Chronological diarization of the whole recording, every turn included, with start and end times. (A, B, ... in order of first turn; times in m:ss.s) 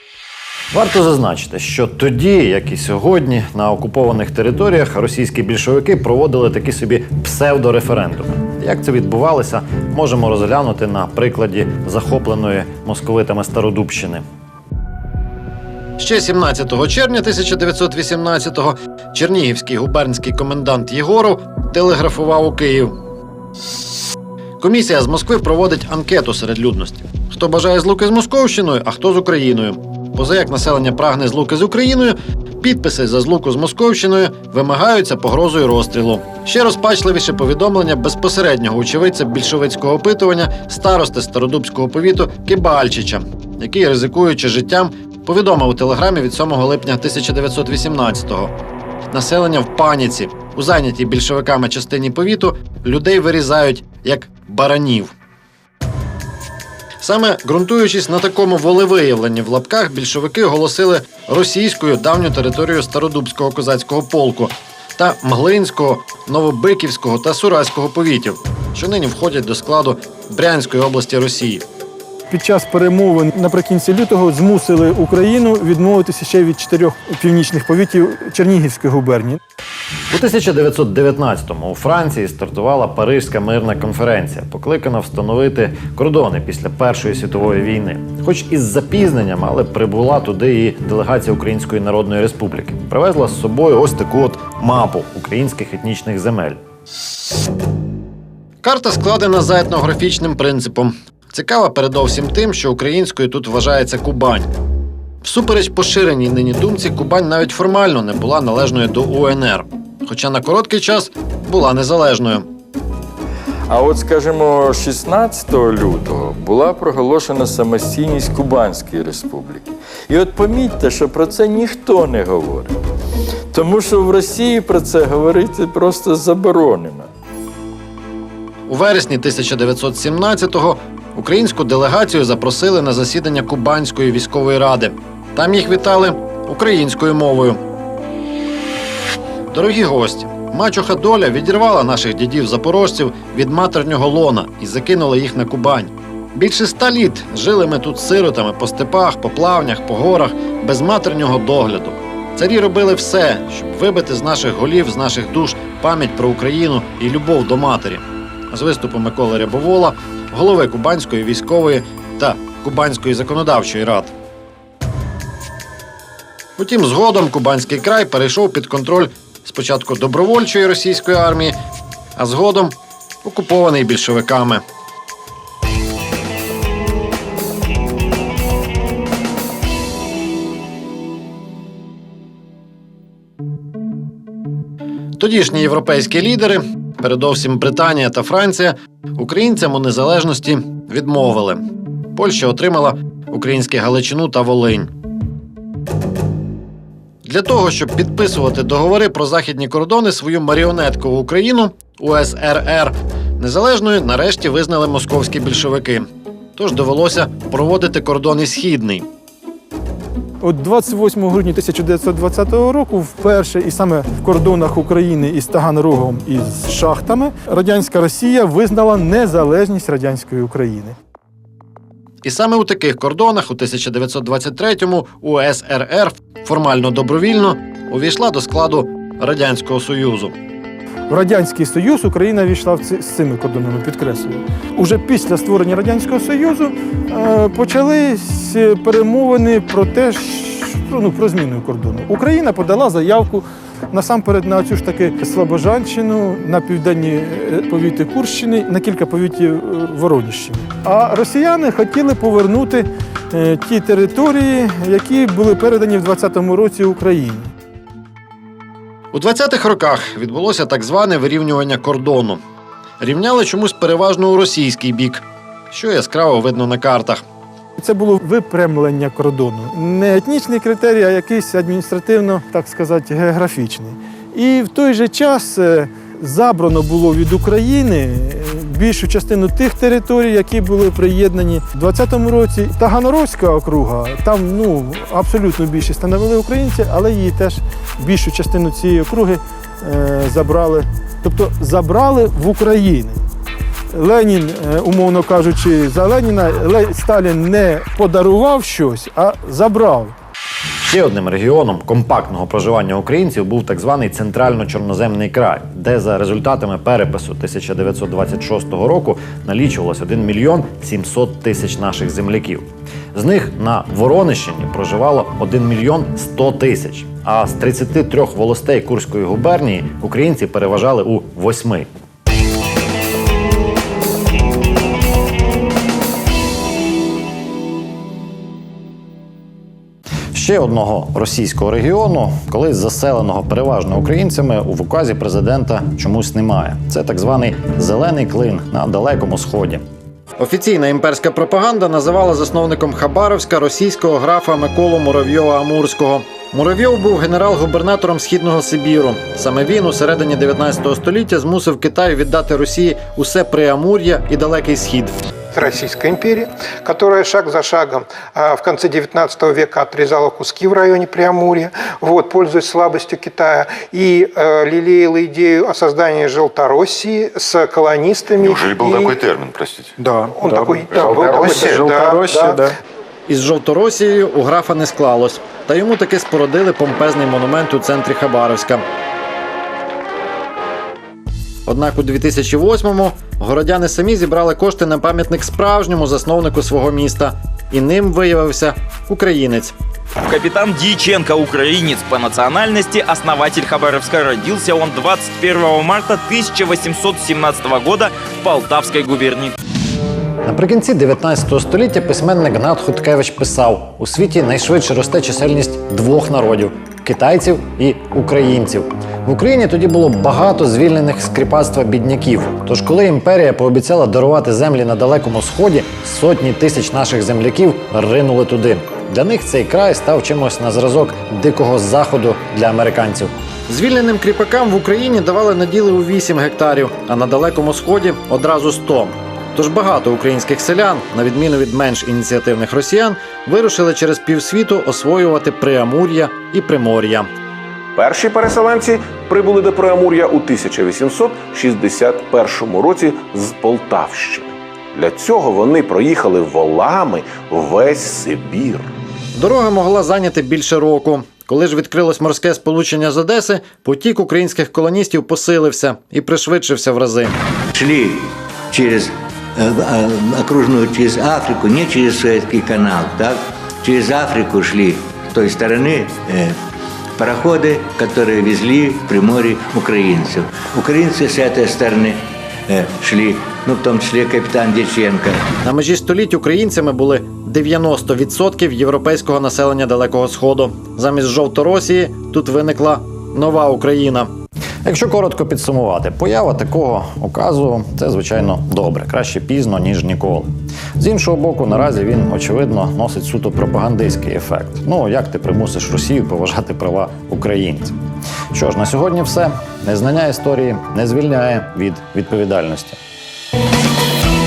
0:00.7-0:14.2 A
0:16.0-0:23.0 A
0:24.6-0:48.5 A
0:49.1-0:55.1 A
0:57.0-1:11.6 A
1:12.3-1:19.4 B
1:20.1-1:36.6 A
1:38.6-1:44.5 A
1:45.2-1:52.5 A
1:53.7-2:02.8 C
2:03.5-2:07.1 C
2:08.7-2:17.6 A
2:19.5-2:44.1 A
2:46.6-2:51.6 A
2:52.2-2:54.6 A
3:05.2-3:11.6 A
3:12.1-3:14.9 A
3:17.2-3:29.1 A
3:30.4-3:41.0 B
3:42.2-3:50.4 A
3:51.1-4:17.5 B
4:19.1-4:22.4 A
4:23.0-4:27.2 A
4:27.8-4:53.2 B
4:53.9-5:00.1 B
5:00.8-5:21.9 A
5:30.3-5:39.8 A
5:40.4-5:55.2 A
5:55.5-6:09.2 D
6:08.4-6:09.9 E
6:10.3-6:12.7 D
6:10.5-6:11.8 E
6:13.3-6:18.8 A
6:21.7-6:29.8 A
6:30.3-6:39.5 F
6:40.4-7:17.3 A
7:18.0-7:28.9 G
7:29.4-7:37.4 A
7:37.7-7:46.6 H
7:47.2-7:55.5 H
7:55.6-8:04.3 A
8:04.8-8:18.0 A
8:18.5-8:23.0 A